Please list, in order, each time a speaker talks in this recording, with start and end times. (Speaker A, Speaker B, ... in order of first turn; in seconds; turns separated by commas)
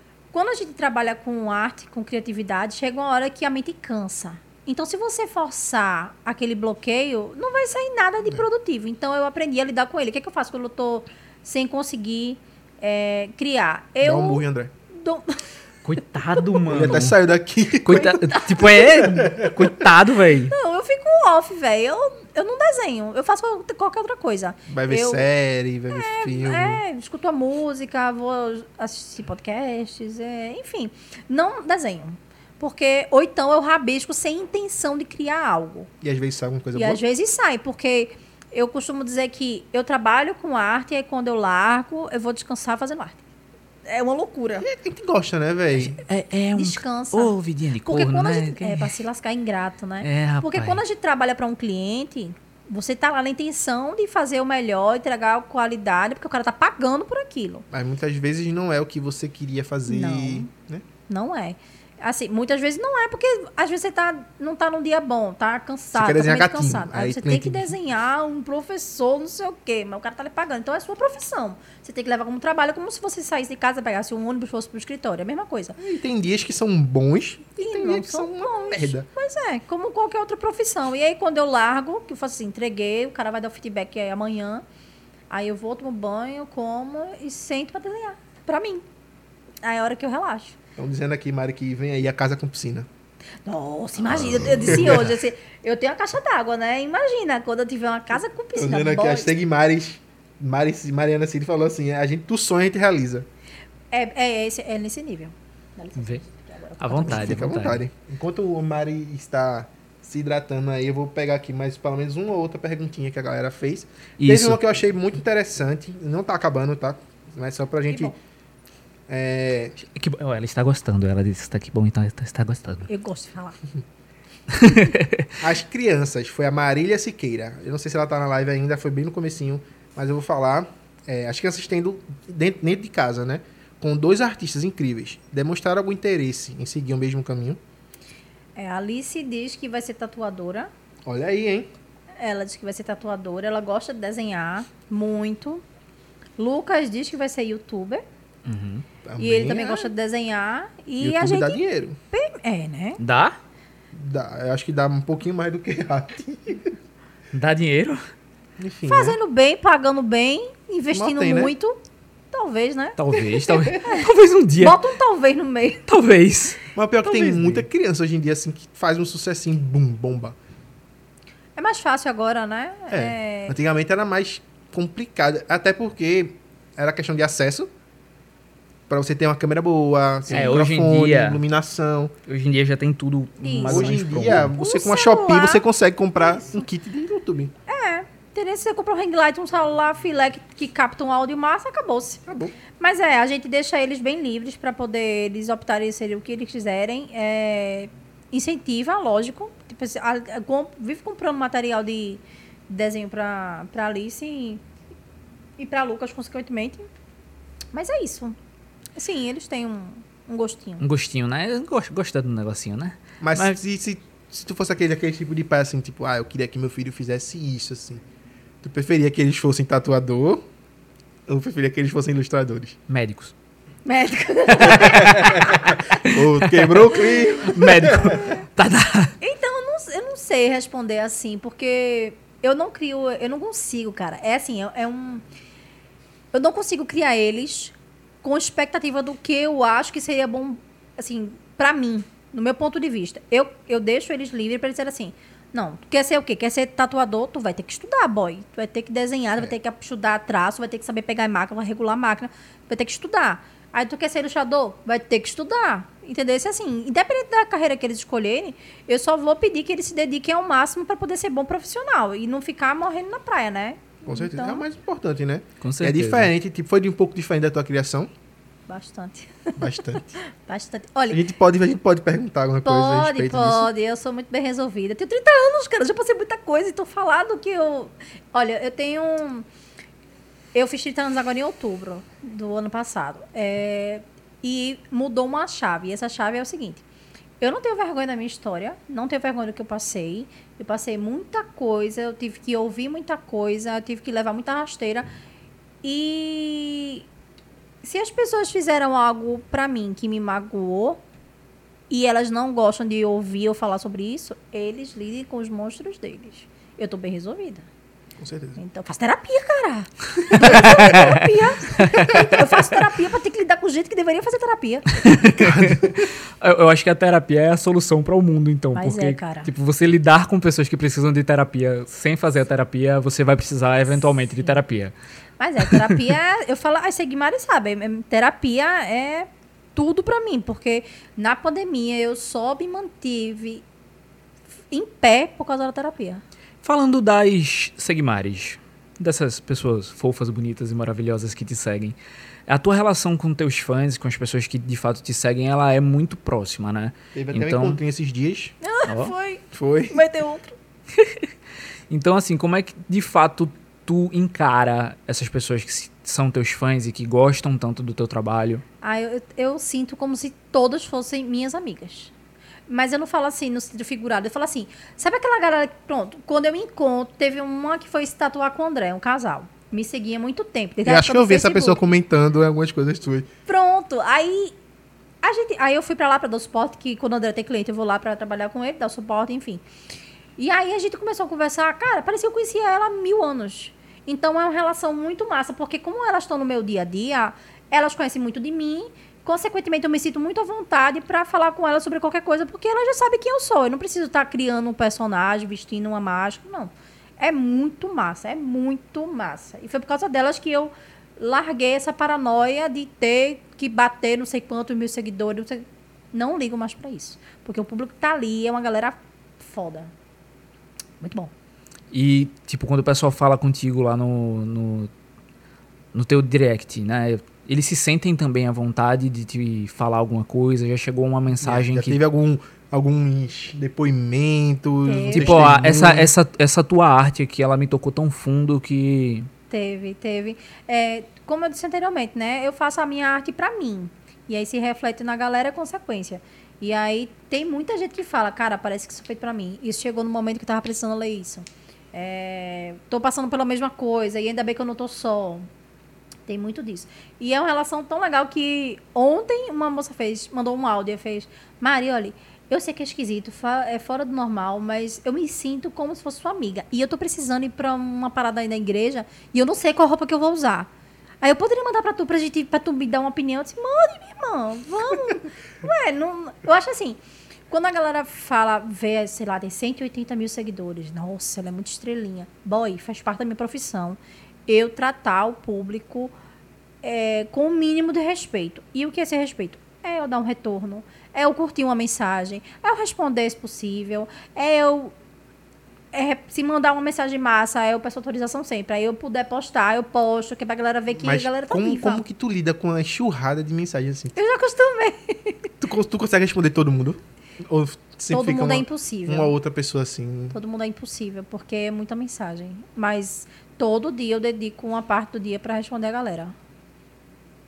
Speaker A: 0.3-15.4, Speaker B: 14.0-14.7, Speaker C: 15.8-17.2, Speaker B: 16.7-18.4, Speaker C: 17.9-20.5, Speaker A: 18.0-19.1, Speaker B: 19.1-19.7, Speaker A: 20.5-25.3, Speaker B: 24.7-26.8, Speaker A: 25.9-35.9, Speaker B: 36.0-37.0, Speaker A: 36.8-43.2, Speaker A: 43.9-44.7, Speaker B: 44.6-46.0, Speaker C: 45.8-48.9, Speaker A: 46.6-47.3, Speaker A: 47.9-57.6, Speaker C: 50.0-50.8, Speaker B: 57.7-60.9, Speaker A: 59.9-60.5, Speaker A: 61.1-75.8, Speaker B: 65.9-67.8, Speaker B: 75.8-79.1, Speaker A: 77.6-84.6, Speaker A: 85.3-88.8, Speaker A: 89.6-90.6, Speaker B: 90.8-92.9, Speaker A: 93.5-99.3, Speaker B: 94.3-95.1, Speaker B: 98.5-103.3, Speaker A: 103.9-107.5, Speaker C: 106.8-107.8, Speaker B: 107.0-118.1, Speaker C: 114.2-114.6, Speaker A: 117.9-118.2, Speaker B: 119.1-119.8, Speaker C: 119.9-122.9, Speaker A: 122.9-123.6, Speaker C: 124.5-125.3, Speaker B: 125.4-137.6, Speaker A: 138.6-140.7, Speaker B: 141.1-141.7, Speaker A: 142.2-145.6, Speaker A: 146.4-148.0, Speaker C: 148.5-148.8, Speaker B: 149.1-149.9, Speaker A: 149.2-153.0, Speaker B: 151.0-152.0, Speaker C: 153.0-153.4, Speaker B: 153.9-156.8, Speaker C: 157.3-158.0, Speaker B: 158.6-159.2, Speaker A: 158.9-161.8, Speaker B: 160.9-161.5, Speaker A: 162.3-165.9, Speaker C: 163.0-164.8, Speaker C: 165.9-167.6, Speaker B: 166.8-170.4, Speaker A: 171.6-173.6, Speaker B: 172.9-177.7, Speaker B: 178.9-182.1, Speaker C: 180.3-181.4, Speaker C: 182.3-184.5, Speaker A: 183.4-185.6, Speaker B: 183.7-187.5, Speaker A: 187.7-192.2, Speaker B: 192.3-192.6, Speaker A: 192.7-204.6, Speaker A: 205.6-206.9, Speaker A: 207.7-208.4, Speaker A: 209.0-210.8, Speaker C: 210.8-213.6, Speaker B: 213.2-218.0, Speaker B: 218.6-220.4, Speaker B: 221.3-222.8, Speaker C: 222.9-223.3, Speaker A: 223.9-225.4, Speaker B: 224.6-228.2, Speaker C: 224.6-226.8, Speaker C: 227.4-229.2, Speaker A: 227.9-228.5, Speaker A: 229.2-235.2, Speaker A: 236.3-264.6, Speaker B: 264.1-268.1, Speaker C: 265.6-266.3, Speaker A: 268.7-271.2, Speaker B: 269.6-270.2, Speaker B: 271.1-273.7, Speaker A: 272.6-279.5, Speaker A: 280.5-286.8, Speaker A: 287.4-295.1, Speaker A: 295.8-297.1, Speaker A: 297.8-301.0, Speaker A: 301.9-307.7, Speaker B: 308.2-308.6, Speaker A: 308.6-315.0, Speaker C: 310.3-312.8, Speaker C: 315.0-324.9, Speaker B: 315.4-316.1, Speaker A: 318.8-319.5, Speaker A: 324.3-324.6, Speaker A: 325.4-333.6, Speaker C: 325.7-326.0, Speaker A: 334.7-336.2, Speaker C: 336.6-347.8, Speaker B: 347.1-348.6, Speaker A: 348.6-350.6, Speaker C: 348.9-349.1, Speaker B: 349.5-350.0, Speaker C: 351.0-351.3, Speaker C: 351.9-358.6, Speaker A: 358.8-362.1, Speaker A: 362.7-371.8, Speaker B: 370.9-373.3, Speaker A: 373.5-374.5, Speaker A: 375.2-379.6, Speaker A: 380.4-409.9, Speaker A: 411.0-411.3, Speaker C: 411.9-414.9, Speaker C: 415.9-422.0, Speaker B: 421.4-426.1, Speaker A: 424.9-425.5, Speaker C: 425.1-429.3, Speaker A: 429.5-445.5, Speaker A: 446.3-460.7, Speaker A: 461.2-467.0, Speaker A: 467.5-476.1, Speaker A: 476.8-484.9, Speaker A: 485.9-492.0, Speaker B: 491.0-494.2, Speaker A: 494.1-495.5, Speaker B: 495.6-500.4, Speaker A: 498.1-499.3, Speaker A: 500.3-506.4